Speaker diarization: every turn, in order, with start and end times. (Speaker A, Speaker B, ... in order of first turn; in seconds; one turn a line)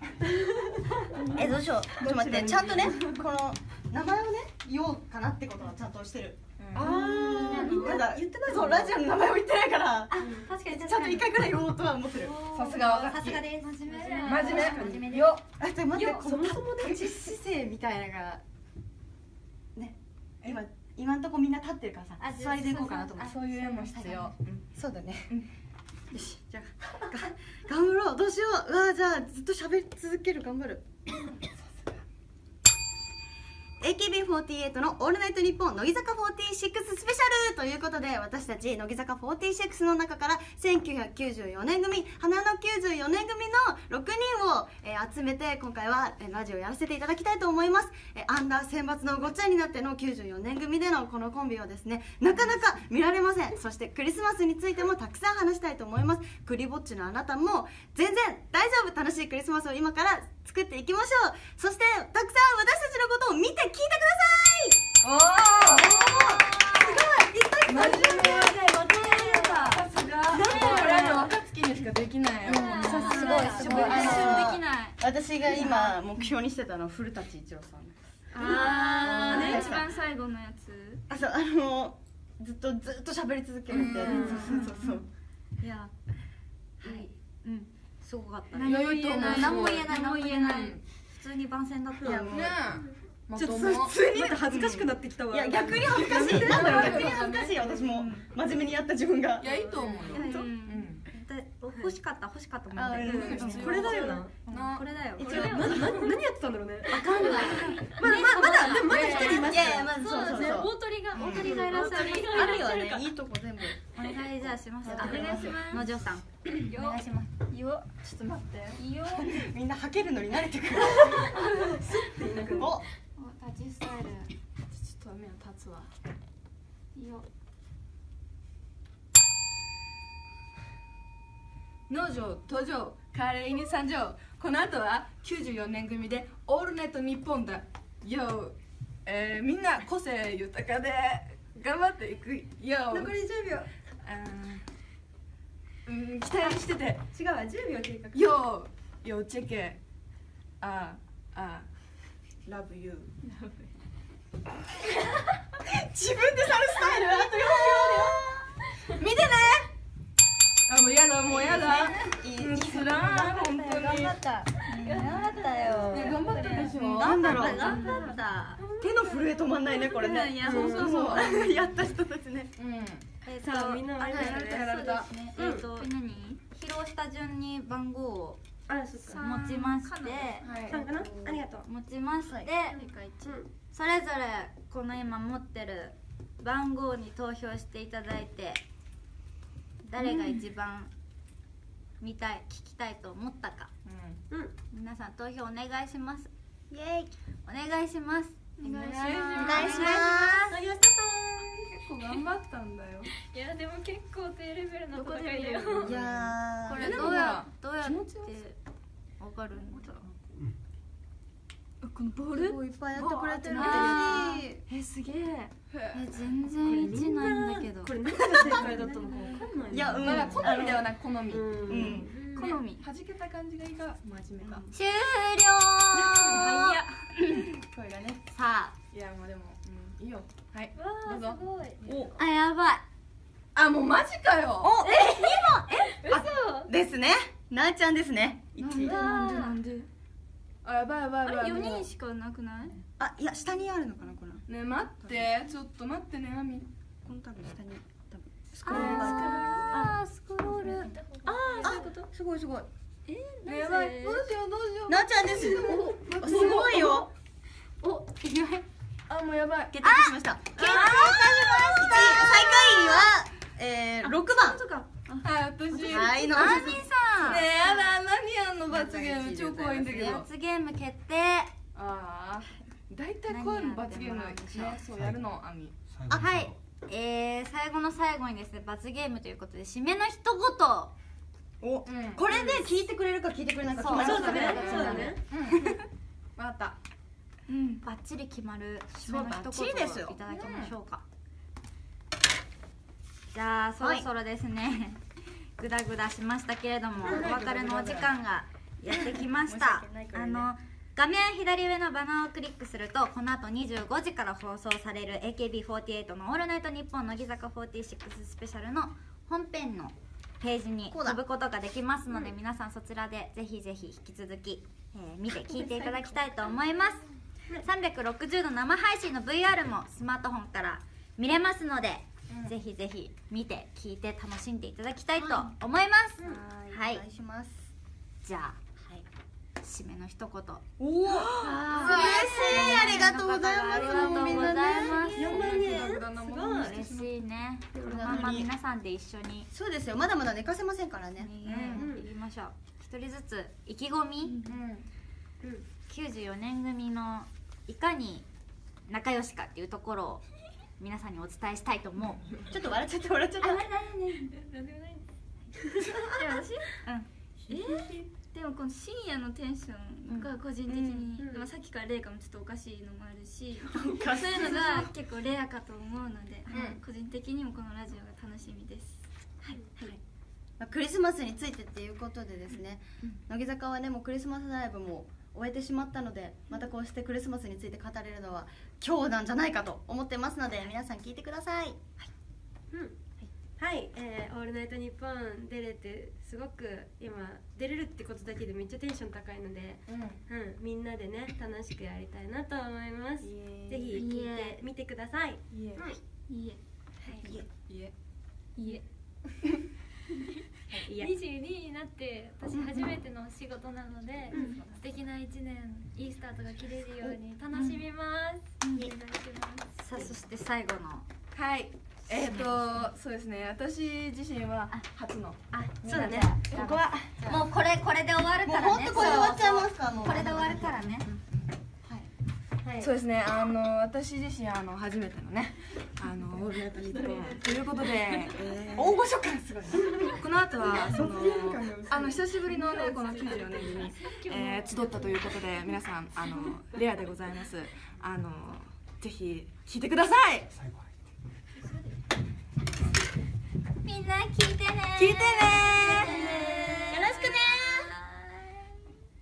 Speaker A: 0.3-1.3
Speaker B: 1.2-12.4
Speaker A: 2.0-3.1
Speaker C: 2.2-2.8
Speaker C: 6.6-7.0
Speaker A: 6.7-9.0
Speaker D: 7.3-8.1
Speaker D: 10.1-11.4
Speaker A: 10.2-10.5
Speaker D: 12.2-15.4
Speaker C: 12.5-13.5
Speaker E: 12.6-13.0
Speaker F: 13.9-14.4
Speaker E: 14.1-14.4
Speaker C: 14.2-15.5
Speaker A: 14.3-15.1
Speaker B: 15.5-18.4
Speaker A: 15.9-17.3
Speaker B: 19.8-23.1
Speaker F: 22.2-23.5
Speaker A: 22.2-23.3
Speaker C: 23.2-24.4
Speaker B: 24.4-25.3
Speaker B: 26.1-30.9
Speaker B: 33.8-64.9
Speaker C: 65.0-66.4
Speaker A: 65.8-69.8
Speaker C: 67.7-68.8
Speaker D: 69.1-69.8
Speaker E: 69.3-69.6
Speaker C: 69.6-74.5
Speaker A: 70.3-71.2
Speaker E: 70.4-71.3
Speaker D: 70.4-71.2
Speaker F: 72.5-73.9
Speaker D: 72.5-74.6
Speaker E: 72.8-75.0
Speaker A: 73.1-74.2
Speaker B: 73.3-79.9
Speaker E: 75.5-76.0
Speaker E: 78.3-81.0
Speaker D: 78.4-79.8
Speaker F: 78.4-79.0
Speaker C: 79.1-79.7
Speaker B: 81.1-85.1
Speaker C: 83.7-84.6
Speaker D: 84.0-84.9
Speaker A: 84.1-84.5
Speaker E: 84.2-85.0
Speaker D: 85.6-85.9
Speaker D: 86.8-92.4
Speaker C: 88.6-90.8
Speaker E: 88.6-90.7
Speaker A: 92.0-92.4
Speaker B: 92.0-92.7
Speaker C: 92.3-94.1
Speaker A: 93.3-97.3
Speaker B: 94.1-99.8
Speaker D: 94.5-94.8
Speaker C: 96.1-98.0
Speaker D: 98.0-98.3
Speaker C: 99.4-101.1
Speaker A: 99.5-100.5
Speaker D: 100.1-105.9
Speaker B: 102.7-104.3
Speaker A: 103.0-104.4
Speaker C: 103.0-105.0
Speaker B: 105.2-106.1
Speaker A: 105.2-109.9
Speaker D: 106.9-109.8
Speaker E: 107.1-108.2
Speaker C: 108.8-109.7
Speaker B: 109.2-113.8
Speaker F: 109.8-113.1
Speaker E: 111.1-112.7
Speaker D: 111.2-112.4
Speaker D: 114.0-117.3
Speaker B: 114.5-115.6
Speaker E: 114.8-115.9
Speaker E: 116.7-119.5
Speaker B: 119.2-121.3
Speaker A: 121.3-122.8
Speaker E: 121.4-121.9
Speaker B: 122.6-122.8
Speaker E: 123.2-124.3
Speaker C: 124.7-125.9
Speaker E: 127.0-127.3
Speaker C: 131.9-143.2
Speaker A: 142.9-143.7
Speaker C: 144.0-144.6
Speaker C: 145.8-147.1
Speaker A: 146.4-148.3
Speaker C: 148.1-149.8
Speaker C: 150.6-151.7
Speaker C: 152.5-153.2
Speaker E: 153.2-153.6
Speaker B: 155.6-159.6
Speaker C: 159.0-159.6
Speaker C: 160.7-164.2
Speaker B: 161.3-163.2
Speaker D: 163.0-168.6
Speaker F: 164.7-166.8
Speaker E: 164.8-165.3
Speaker C: 165.9-167.4
Speaker E: 166.4-166.7
Speaker B: 166.8-167.8
Speaker A: 167.3-168.1
Speaker F: 167.4-169.0
Speaker E: 167.5-168.1
Speaker B: 168.8-172.5
Speaker A: 168.9-169.2
Speaker E: 170.0-170.7
Speaker D: 170.0-171.1
Speaker A: 170.3-171.1
Speaker C: 170.4-171.5
Speaker C: 172.6-173.1
Speaker D: 173.2-178.4
Speaker A: 173.4-175.7
Speaker C: 174.1-175.1
Speaker A: 178.7-179.2
Speaker E: 179.1-181.0
Speaker D: 179.1-181.1
Speaker C: 180.4-180.8
Speaker A: 180.6-181.7
Speaker D: 181.6-182.8
Speaker E: 182.7-183.4
Speaker A: 182.8-183.5
Speaker D: 183.7-188.6
Speaker D: 189.8-190.9
Speaker D: 192.0-193.7
Speaker C: 193.8-194.2
Speaker D: 194.7-196.3
Speaker B: 196.7-197.2
Speaker D: 197.4-200.6
Speaker C: 198.6-199.8
Speaker E: 198.6-200.1
Speaker F: 199.2-199.9
Speaker B: 199.4-200.6
Speaker A: 200.6-201.6
Speaker C: 201.7-203.1
Speaker F: 203.2-206.0
Speaker E: 204.9-206.0
Speaker C: 205.8-208.3
Speaker B: 205.8-207.0
Speaker D: 206.7-208.6
Speaker E: 206.7-207.4
Speaker D: 209.2-210.1
Speaker E: 211.8-214.5
Speaker B: 212.3-214.6
Speaker D: 213.4-214.3
Speaker C: 213.5-216.5
Speaker D: 215.9-218.0
Speaker A: 216.6-220.6
Speaker C: 218.5-224.7
Speaker E: 219.1-219.5
Speaker B: 219.7-220.9
Speaker A: 221.3-222.5
Speaker B: 221.7-222.1
Speaker F: 222.1-222.6
Speaker D: 222.3-222.9
Speaker D: 224.7-227.4
Speaker E: 226.3-226.9
Speaker B: 227.4-228.2
Speaker D: 228.3-228.8
Speaker C: 228.9-231.4
Speaker F: 230.8-232.0
Speaker B: 231.9-232.1
Speaker D: 232.2-232.8
Speaker C: 233.5-234.8
Speaker B: 234.6-239.0
Speaker F: 234.8-236.7
Speaker C: 238.6-239.0
Speaker F: 238.8-239.6
Speaker D: 238.8-239.9
Speaker E: 238.9-239.7
Speaker C: 240.6-241.9
Speaker E: 241.2-242.8
Speaker B: 243.0-244.4
Speaker C: 244.5-246.7
Speaker B: 247.0-249.8
Speaker D: 248.7-250.9
Speaker C: 248.7-249.3
Speaker E: 248.7-249.9
Speaker A: 249.2-249.6
Speaker F: 250.8-251.9
Speaker A: 251.3-252.1
Speaker B: 251.6-252.7
Speaker E: 253.1-254.3
Speaker C: 253.5-257.1
Speaker B: 254.9-257.1
Speaker E: 255.6-256.9
Speaker E: 257.8-258.6
Speaker C: 259.1-259.8
Speaker B: 259.7-264.6
Speaker D: 259.8-263.0
Speaker E: 260.6-263.0
Speaker E: 264.0-265.9
Speaker C: 265.2-266.2
Speaker B: 265.8-266.9
Speaker D: 265.8-267.8
Speaker C: 267.2-270.3
Speaker D: 268.7-271.5
Speaker C: 271.7-275.8
Speaker D: 273.3-274.8
Speaker B: 276.1-276.5
Speaker D: 276.1-280.9
Speaker B: 281.6-285.1
Speaker C: 281.9-282.2
Speaker D: 282.3-282.6
Speaker A: 283.8-285.2
Speaker D: 283.8-285.2
Speaker C: 284.0-285.8
Speaker C: 286.4-286.8
Speaker D: 287.5-291.0
Speaker B: 289.1-290.2
Speaker C: 290.2-290.7
Speaker D: 293.3-295.0
Speaker B: 293.8-294.1
Speaker D: 295.6-317.1
Speaker B: 297.0-298.1
Speaker B: 298.9-300.5
Speaker B: 310.9-311.2
Speaker D: 317.6-327.0
Speaker B: 325.1-325.5
Speaker A: 326.2-326.4
Speaker B: 326.2-327.7
Speaker D: 328.2-328.6
Speaker B: 328.8-329.1
Speaker D: 329.6-330.6
Speaker B: 330.8-335.3
Speaker D: 331.1-335.7
Speaker E: 331.4-333.1
Speaker E: 333.8-334.5
Speaker A: 335.2-336.8
Speaker C: 335.2-337.2
Speaker D: 336.5-339.5
Speaker B: 337.8-338.5
Speaker B: 339.5-341.9
Speaker D: 341.2-344.4
Speaker C: 341.4-341.9
Speaker A: 341.8-342.1
Speaker E: 344.2-344.5
Speaker C: 344.4-344.9
Speaker D: 345.9-348.3
Speaker D: 348.9-350.2
Speaker D: 350.8-352.5
Speaker B: 352.5-353.7
Speaker E: 353.4-354.3
Speaker F: 354.3-355.0
Speaker E: 356.1-356.8
Speaker D: 356.8-357.1
Speaker A: 357.5-358.1
Speaker E: 357.5-370.0
Speaker A: 361.2-361.5
Speaker B: 363.7-364.9
Speaker C: 366.5-366.8
Speaker B: 370.6-382.1
Speaker A: 382.7-383.0
Speaker A: 383.6-396.0
Speaker C: 389.9-390.2
Speaker C: 393.2-393.9
Speaker D: 393.9-394.6
Speaker E: 393.9-394.5
Speaker C: 395.5-395.9
Speaker E: 396.3-396.6
Speaker C: 397.3-397.9
Speaker E: 398.6-398.8
Speaker A: 400.9-401.1
Speaker F: 401.0-410.1
Speaker A: 404.3-404.6
Speaker D: 408.6-408.9
Speaker D: 409.8-411.1
Speaker C: 411.3-417.1
Speaker D: 412.1-412.9
Speaker D: 415.5-421.1
Speaker A: 415.9-416.7
Speaker B: 415.9-417.5
Speaker B: 418.4-420.9
Speaker C: 419.0-419.4
Speaker B: 421.8-422.1
Speaker A: 422.6-422.9
Speaker C: 422.8-429.1
Speaker B: 428.3-430.1
Speaker C: 429.8-440.5
Speaker B: 430.6-432.2
Speaker F: 432.5-435.4
Speaker D: 443.8-448.6
Speaker A: 445.0-446.6
Speaker B: 446.9-448.0